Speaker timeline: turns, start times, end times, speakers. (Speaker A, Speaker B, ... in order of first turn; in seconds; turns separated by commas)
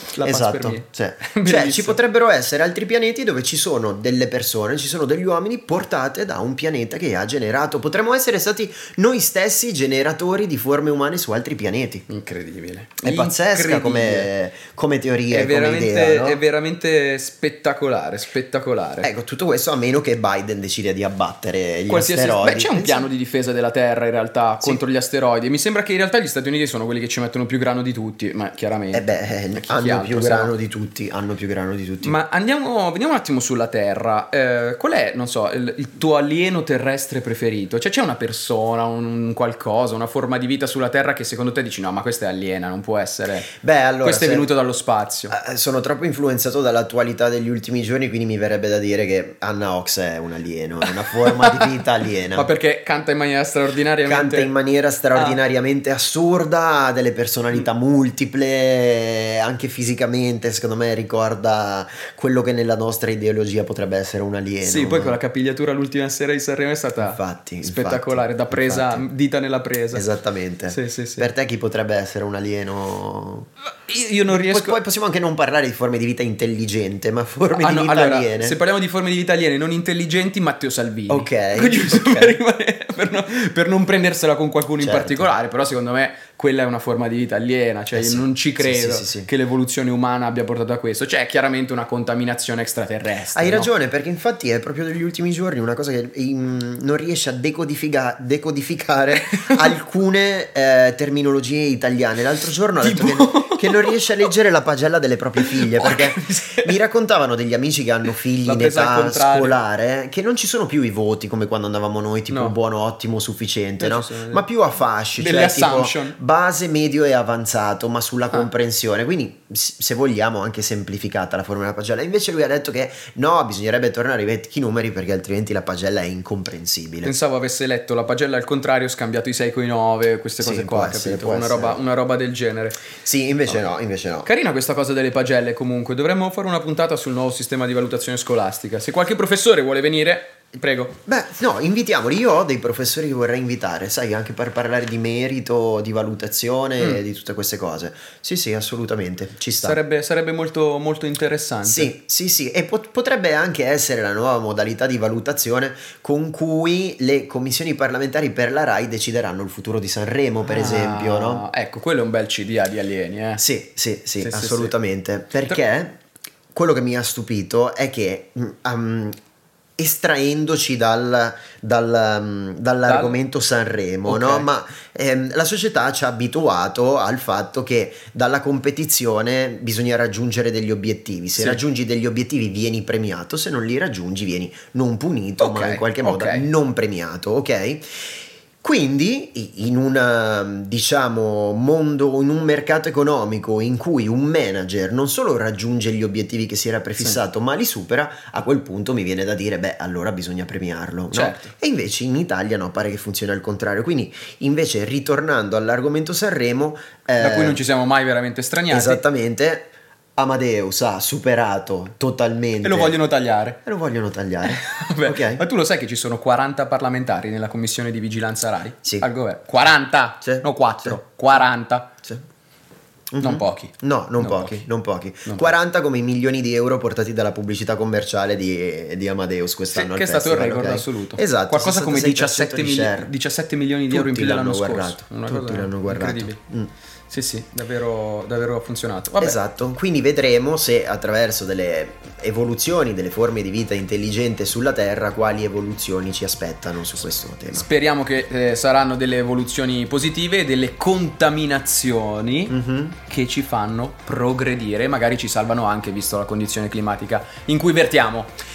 Speaker A: 0.1-2.0, Speaker B: 0.2-12.1, Speaker A: 12.1-14.3, Speaker B: 13.0-16.4, Speaker A: 15.3-19.1, Speaker B: 19.0-23.1, Speaker A: 21.9-30.5, Speaker B: 28.9-32.2, Speaker A: 32.0-43.5, Speaker B: 43.6-44.5, Speaker A: 44.0-45.4, Speaker B: 45.3-52.5, Speaker A: 50.8-51.7, Speaker A: 52.3-54.5, Speaker B: 54.0-65.2, Speaker A: 64.6-70.1, Speaker B: 67.0-69.1, Speaker B: 69.9-73.5, Speaker A: 70.7-71.3, Speaker A: 73.9-74.8, Speaker B: 74.3-78.6, Speaker A: 77.5-93.7, Speaker B: 81.1-82.4, Speaker B: 84.8-85.4, Speaker B: 87.9-89.3, Speaker B: 93.3-127.1, Speaker A: 99.3-99.7, Speaker A: 102.8-104.1, Speaker A: 105.4-106.8, Speaker A: 108.5-109.6, Speaker A: 112.3-112.6, Speaker A: 113.8-114.4, Speaker A: 115.2-116.2, Speaker A: 127.0-132.8, Speaker B: 130.4-131.8, Speaker B: 133.0-134.3, Speaker A: 134.2-140.9, Speaker B: 141.1-149.8, Speaker A: 149.6-151.9, Speaker B: 151.7-161.5, Speaker A: 160.5-163.4, Speaker B: 163.4-166.0, Speaker A: 164.2-164.7, Speaker B: 166.6-169.2, Speaker B: 169.8-188.1, Speaker A: 172.9-173.2, Speaker A: 174.1-174.5, Speaker A: 181.4-181.6, Speaker A: 185.4-186.5, Speaker B: 188.6-207.6, Speaker A: 201.1-201.5, Speaker A: 207.2-209.0, Speaker B: 208.7-213.0, Speaker A: 212.6-213.6, Speaker B: 213.7-215.4, Speaker A: 214.4-221.9, Speaker B: 220.2-221.0, Speaker B: 223.1-233.1, Speaker A: 223.2-224.6, Speaker A: 225.3-225.5, Speaker A: 229.7-236.4, Speaker B: 233.9-236.7, Speaker A: 237.1-239.4, Speaker B: 239.2-247.7, Speaker A: 247.5-252.6, Speaker B: 252.5-253.0, Speaker A: 253.1-258.3